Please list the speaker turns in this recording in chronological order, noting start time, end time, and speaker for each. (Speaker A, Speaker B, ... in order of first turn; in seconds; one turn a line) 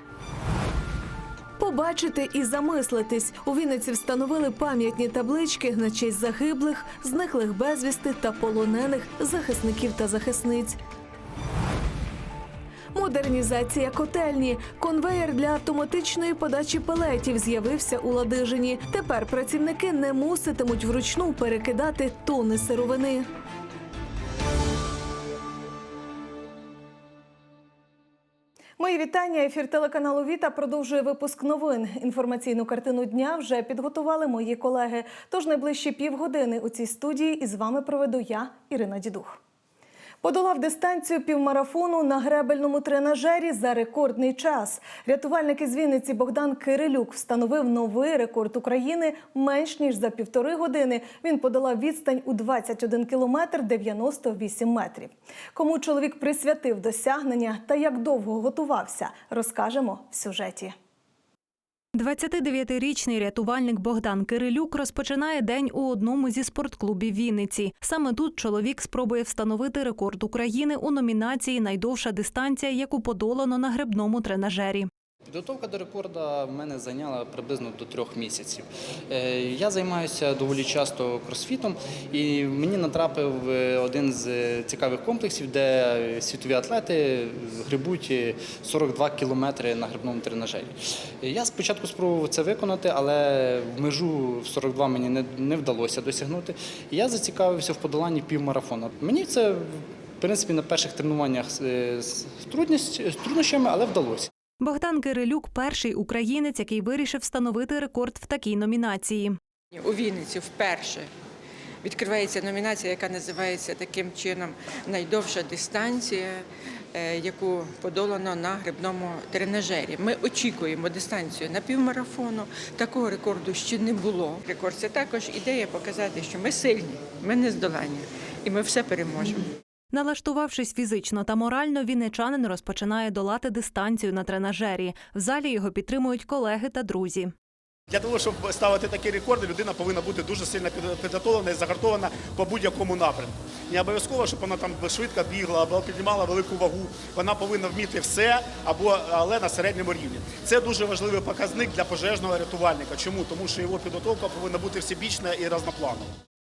Speaker A: 1.6-10.8
Speaker A: 12.9-23.2
Speaker A: 28.8-39.4
Speaker A: 40.2-60.8
Speaker B: 62.0-74.9
Speaker C: 75.3-104.3
Speaker B: 104.6-109.4
Speaker D: 109.8-111.1
Speaker D: 111.8-129.5
Speaker B: 129.9-137.3
Speaker E: 137.9-156.1